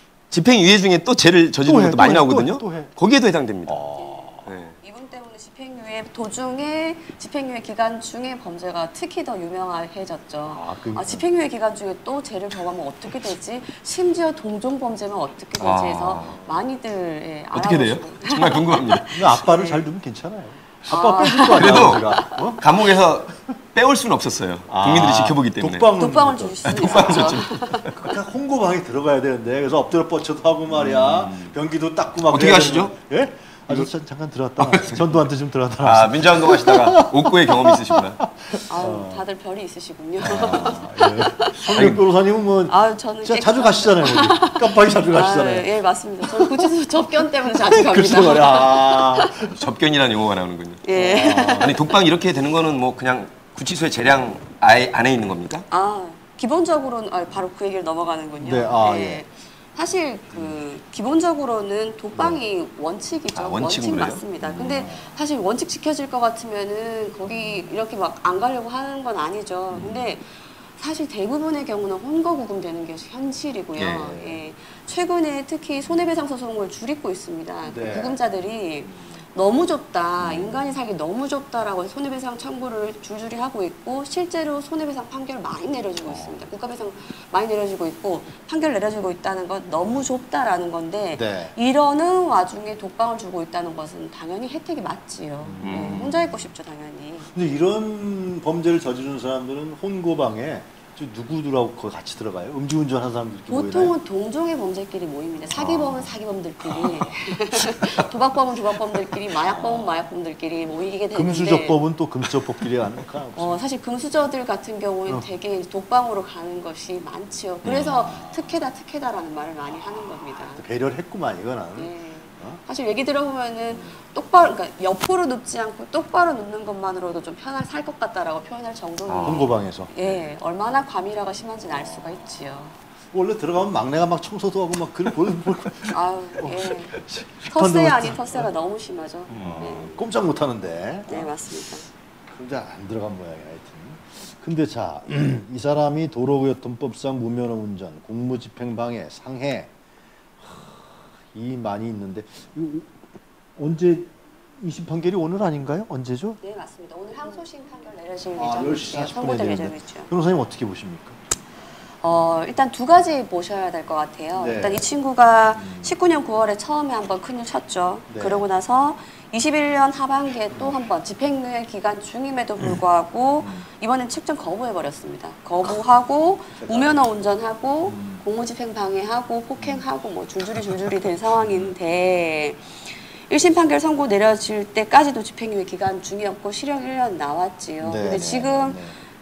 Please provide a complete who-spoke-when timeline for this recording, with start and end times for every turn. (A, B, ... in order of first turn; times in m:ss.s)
0:00.3-0:03.8 A
0:01.6-0:02.9 B
0:03.7-0:04.5 B
0:04.0-0:19.8 C
0:04.4-0:04.7 A
0:10.5-0:11.2 B
0:15.6-0:16.3 A
0:16.2-0:16.6 B
0:17.5-0:19.1 A
0:19.1-0:22.6 B
0:20.9-0:22.4 C
0:21.5-0:25.9 A
0:24.7-0:39.2 B
0:26.0-0:27.9 C
0:26.6-0:27.9 A
0:30.7-0:31.5 A
0:32.3-0:32.9 A
0:34.6-0:35.1 A
0:35.8-0:38.2 A
0:38.7-0:41.6 C
0:40.2-0:45.7 B
0:41.7-0:42.0 A
0:42.7-0:49.5 C
0:47.6-0:49.5 B
0:49.5-0:50.8 A
0:50.8-0:51.8 C
0:50.9-0:51.8 B
0:51.6-0:55.6 A
0:55.7-1:37.3 C
0:58.4-0:59.2 B
1:00.3-1:00.6 B
1:03.3-1:04.2 A
1:04.4-1:05.2 B
1:07.3-1:07.6 B
1:09.7-1:10.1 B
1:13.8-1:14.2 A
1:14.0-1:14.4 B
1:17.6-1:18.2 B
1:18.8-1:19.2 B
1:20.2-1:20.5 A
1:26.0-1:26.4 B
1:31.1-1:31.5 B
1:35.4-1:36.4 B
1:35.6-1:36.1 A
1:37.3-1:43.9 B
1:43.5-1:51.8 C
1:45.5-1:46.0 A
1:49.4-1:50.0 B
1:51.1-1:53.6 B
1:53.4-2:00.6 C
1:57.6-1:58.0 A
1:57.8-1:58.5 B
1:59.7-2:02.6 B
2:01.8-2:12.8 C
2:09.1-2:09.5 A
2:09.2-2:10.2 B
2:11.6-2:12.4 B
2:13.1-2:18.5 B
2:15.9-2:20.0 C
2:19.3-2:19.8 A
2:19.4-2:21.4 B
2:21.1-2:21.8 C
2:22.3-2:29.7 B
2:30.4-2:32.9 B
2:33.6-2:36.4 B
2:36.4-2:40.1 C
2:38.4-2:41.2 B
2:42.0-3:08.8 C
2:44.3-2:44.8 B
2:45.6-2:45.9 B
2:48.1-2:48.4 B
2:56.6-2:57.1 B
2:57.9-2:58.2 B
2:59.6-2:59.8 B
3:07.8-3:08.9 B